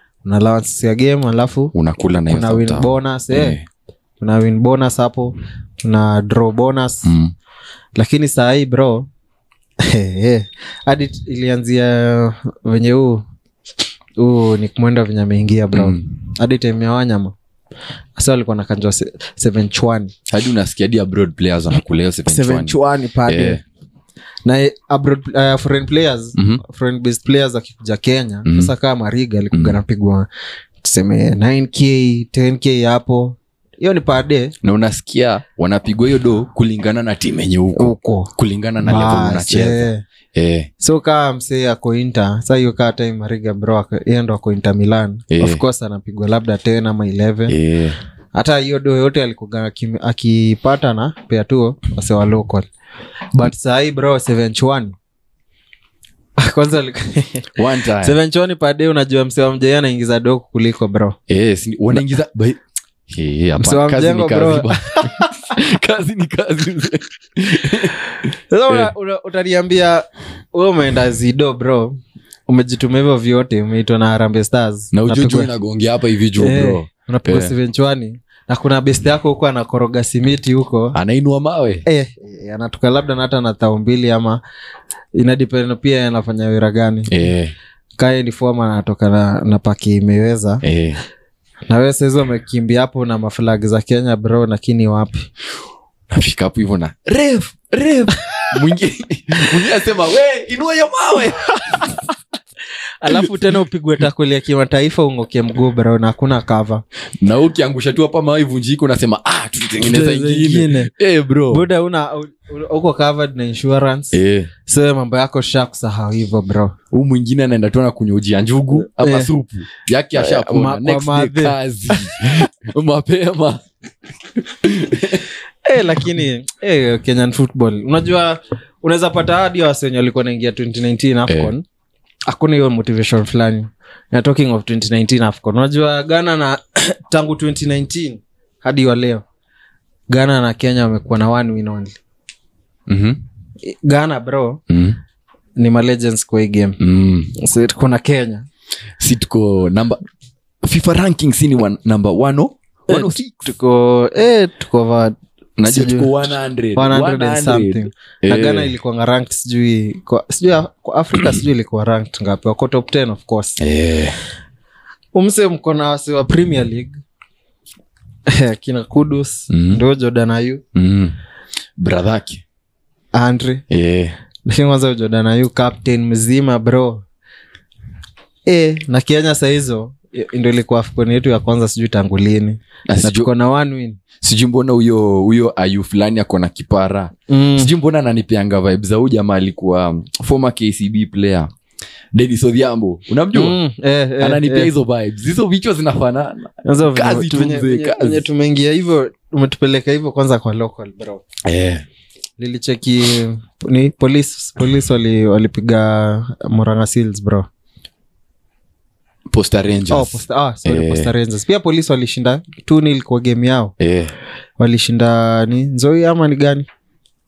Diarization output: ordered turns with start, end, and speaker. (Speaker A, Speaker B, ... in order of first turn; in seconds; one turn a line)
Speaker A: 0.2-1.7
Speaker B: 1.7-3.6
Speaker A: 2.3-3.6
Speaker A: 4.2-7.1
Speaker B: 7.0-7.3
Speaker A: 8.0-9.1
Speaker A: 9.8-13.2
Speaker A: 14.2-17.3
Speaker B: 15.7-16.1
Speaker A: 18.1-20.1
Speaker B: 20.3-23.6
Speaker A: 22.3-23.6
Speaker A: 24.4-30.3
Speaker B: 26.4-26.6
Speaker B: 28.4-28.7
Speaker B: 29.5-29.8
Speaker A: 30.8-34.5
Speaker B: 34.6-40.7
Speaker A: 37.8-38.3
Speaker A: 38.8-40.0
Speaker A: 40.8-47.5
Speaker B: 45.3-45.6
Speaker B: 47.5-48.0
Speaker A: 48.3-52.7
Speaker A: 53.3-55.0
Speaker A: 56.4-61.1
Speaker B: 57.5-58.2
Speaker B: 61.3-68.9
Speaker A: 63.6-65.5
Speaker A: 68.5-75.5
Speaker B: 74.9-77.5
Speaker A: 76.4-81.0
Speaker B: 80.9-81.8
Speaker A: 81.8-84.4
Speaker A: 85.1-87.1
Speaker B: 87.1-87.5
Speaker A: 88.0-90.6
Speaker B: 90.6-91.0
Speaker A: 91.7-95.3
Speaker B: 96.1-102.0
Speaker A: 103.0-106.8
Speaker B: 107.2-111.7
Speaker A: 109.8-110.9
Speaker A: 111.5-116.7
Speaker B: 114.1-114.5
Speaker B: 116.9-123.6
Speaker A: 118.9-119.3
Speaker A: 120.1-122.4
Speaker B: 124.4-125.3
Speaker A: 125.6-131.6
Speaker B: 131.3-131.5
Speaker A: 132.3-139.2
Speaker A: 140.1-141.9
Speaker B: 142.9-143.2
Speaker A: 143.6-144.6
Speaker B: 144.7-145.0
Speaker A: 145.6-146.8
Speaker B: 146.8-147.3
Speaker A: 147.3-148.4
Speaker B: 149.0-150.0
Speaker B: 150.6-153.4
Speaker A: 152.9-163.6
Speaker B: 155.6-158.7
Speaker B: 163.6-164.2
Speaker A: 165.1-166.9
Speaker A: 168.3-170.6
Speaker B: 169.5-169.8
Speaker B: 170.7-171.2
Speaker B: 171.8-172.4
Speaker A: 173.1-173.6
Speaker B: 173.7-174.1
Speaker A: 174.4-177.0
Speaker A: 178.4-184.0
Speaker B: 182.9-183.3
Speaker B: 184.2-191.5
Speaker A: 187.3-187.7
Speaker B: 192.1-193.6
Speaker A: 193.3-194.7
Speaker B: 194.2-198.2
Speaker A: 196.6-201.2
Speaker B: 201.4-201.8
Speaker A: 202.4-207.5
Speaker B: 209.3-211.1
Speaker A: 209.9-213.7
Speaker B: 213.8-214.1
Speaker A: 214.6-216.7